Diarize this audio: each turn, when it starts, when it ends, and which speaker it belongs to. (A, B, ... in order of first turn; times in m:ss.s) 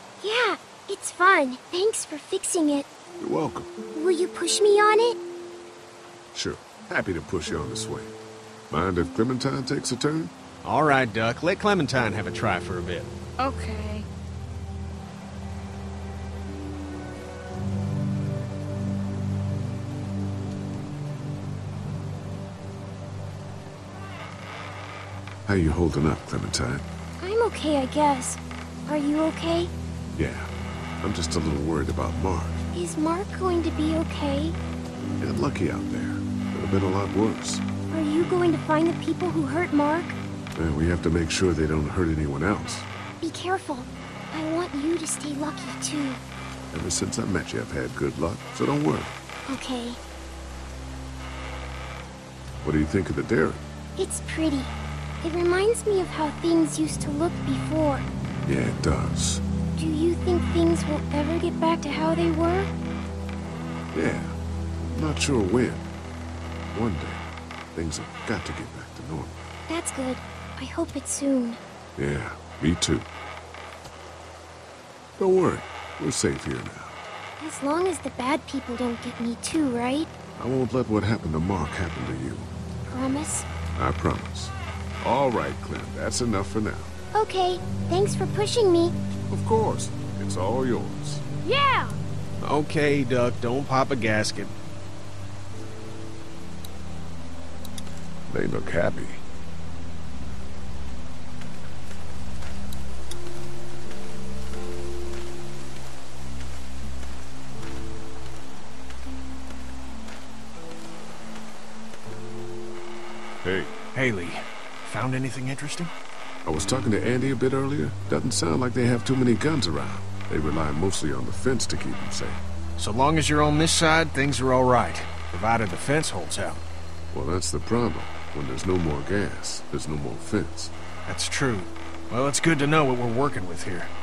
0:00.2-0:02.9 A
0:03.2-0:03.7 B
0:04.0-0:05.2 A
0:06.3-0:08.1 B
0:08.7-0:10.3 B
0:10.6-0:13.1 C
0:25.5-0:26.9 B
0:27.2-0:29.7 A
0:30.2-0:30.5 B
0:31.0-0:32.6 B
0:32.7-0:34.6 A
0:35.2-0:37.6 B
0:37.9-0:40.2 A
0:40.6-0:42.9 B
0:43.2-0:46.2 A
0:46.7-0:49.2 B
0:49.5-0:50.0 A
0:52.6-0:53.6 B
0:54.0-0:58.1 A
0:58.5-0:59.4 B
0:59.8-1:02.7 A
1:03.9-1:05.9 B
1:06.7-1:09.4 B
1:09.7-1:11.6 A
1:12.0-1:13.1 B
1:15.2-1:17.0 B
1:17.4-1:20.1 A
1:20.4-1:22.5 B
1:22.9-1:23.5 A
1:23.8-1:26.9 B
1:27.1-1:29.0 A
1:29.3-1:31.2 B
1:32.4-1:34.5 C
1:38.3-1:39.2 B
1:53.4-1:53.7 B
1:54.0-1:55.9 C
1:56.4-2:02.4 B
2:02.8-2:06.6 C
2:07.1-2:10.7 B
2:11.1-2:13.9 C